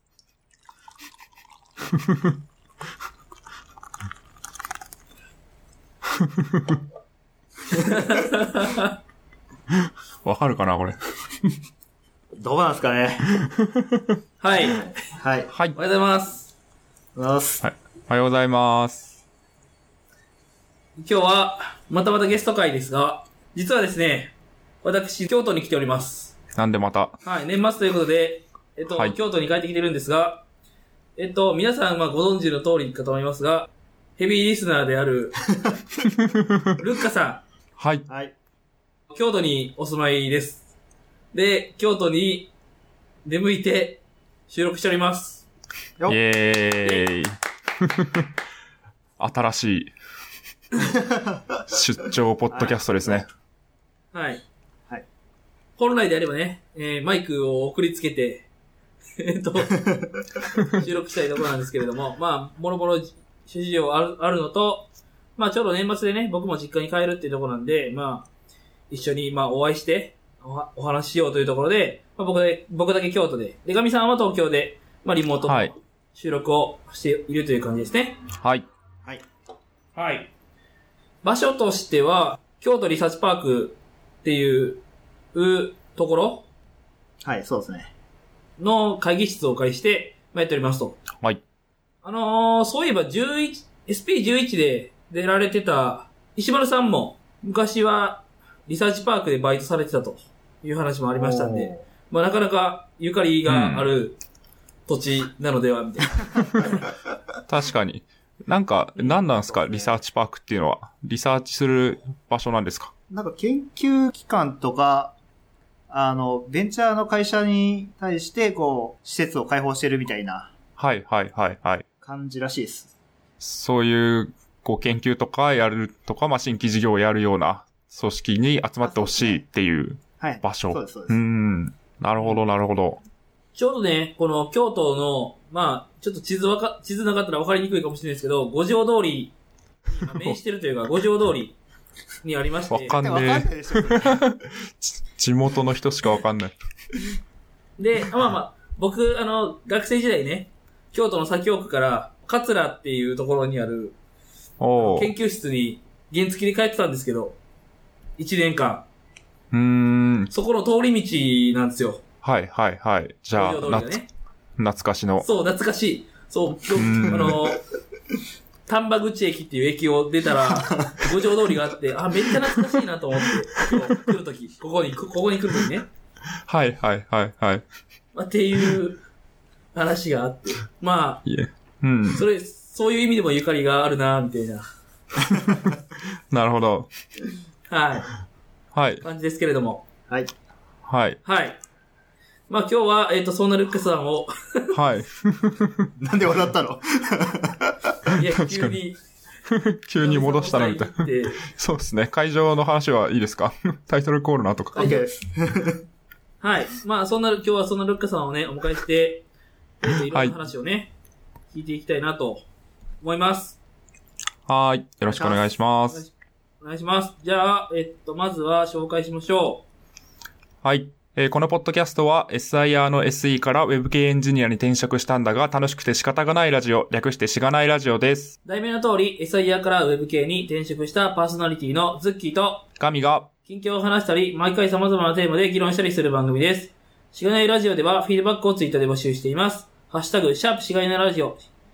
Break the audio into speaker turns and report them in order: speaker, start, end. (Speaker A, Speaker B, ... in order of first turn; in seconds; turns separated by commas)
Speaker A: 7.7-8.9, Speaker B: 9.8-11.5, Speaker C: 12.4-13.4, Speaker B: 13.4-14.2, Speaker A: 14.4-14.9, Speaker C: 15.1-15.5, Speaker B: 15.5-15.8, Speaker A: 15.7-16.5, Speaker C: 17.1-17.6, Speaker B: 17.6-19.2, Speaker A: 21.0-26.4, Speaker B: 26.5-27.2, Speaker A: 27.2-30.4, Speaker A: 31.2-35.4, Speaker B: 36.1-36.7, Speaker A: 36.8-37.4, Speaker B: 37.8-38.0, Speaker C: 38.1-38.3, Speaker A: 39.1-40.7, Speaker A: 41.3-42.5, Speaker A: 43.2-45.4, Speaker B: 46.1-48.3, Speaker B: 49.2-49.9, Speaker C: 50.8-51.6, Speaker B: 51.7-53.3, Speaker C: 52.5-53.2, Speaker A: 54.1-54.4, Speaker A: 55.8-58.5, Speaker A: 59.2-59.8, Speaker C: 59.7-60.2, Speaker A: 60.5-68.3, Speaker A: 68.9-78.2, Speaker B: 75.5-75.7, Speaker B: 78.4-78.7, Speaker A: 79.9-80.3, Speaker A: 81.2-84.8, Speaker A: 85.3-86.5, Speaker C: 87.2-87.9, Speaker A: 88.6-91.0, Speaker A: 92.0-104.2, Speaker C: 101.1-101.8, Speaker B: 103.5-103.9, Speaker A: 104.9-106.8, Speaker B: 107.5-112.9, Speaker C: 109.0-109.9, Speaker C: 113.1-115.1, Speaker C: 115.9-120.5, Speaker B: 120.8-121.8, Speaker C: 122.0-122.9, Speaker B: 123.4-133.0, Speaker C: 128.8-129.4, Speaker C: 130.2-131.2, Speaker A: 133.5-139.3, Speaker A: 139.9-141.6, Speaker A: 142.2-143.0, Speaker B: 142.7-146.5, Speaker C: 142.9-144.2, Speaker A: 147.8-153.9, Speaker B: 154.6-155.1, Speaker A: 154.8-157.4, Speaker A: 158.2-158.8, Speaker B: 159.5-160.3, Speaker A: 160.3-162.0, Speaker B: 162.2-164.0, Speaker A: 163.3-164.1, Speaker B: 164.6-165.2, Speaker A: 165.2-167.6, Speaker B: 166.8-167.5, Speaker A: 168.7-175.8, Speaker C: 170.5-171.0, Speaker B: 176.5-177.6, Speaker A: 178.1-179.0, Speaker A: 179.7-181.2, Speaker B: 181.2-182.2, Speaker A: 182.1-184.7, Speaker B: 186.3-186.9, Speaker A: 187.7-188.1, Speaker B: 188.7-189.0, Speaker A: 189.0-189.8, Speaker B: 190.9-191.2, Speaker A: 191.2-191.6, Speaker A: 192.5-194.8, Speaker B: 194.7-195.9, Speaker C: 196.0-198.1, Speaker A: 198.2-199.0, Speaker B: 198.5-198.8, Speaker B: 199.5-204.9, Speaker A: 200.0-201.4, Speaker A: 204.7-205.0, Speaker C: 204.8-205.8, Speaker A: 206.4-209.2, Speaker A: 209.8-210.9, Speaker A: 211.5-212.4, Speaker A: 213.0-213.6, Speaker B: 214.5-216.0, Speaker C: 215.1-215.4, Speaker A: 215.9-219.6, Speaker B: 220.6-228.3, Speaker A: 228.4-232.7, Speaker B: 232.8-233.3, Speaker A: 233.5-241.4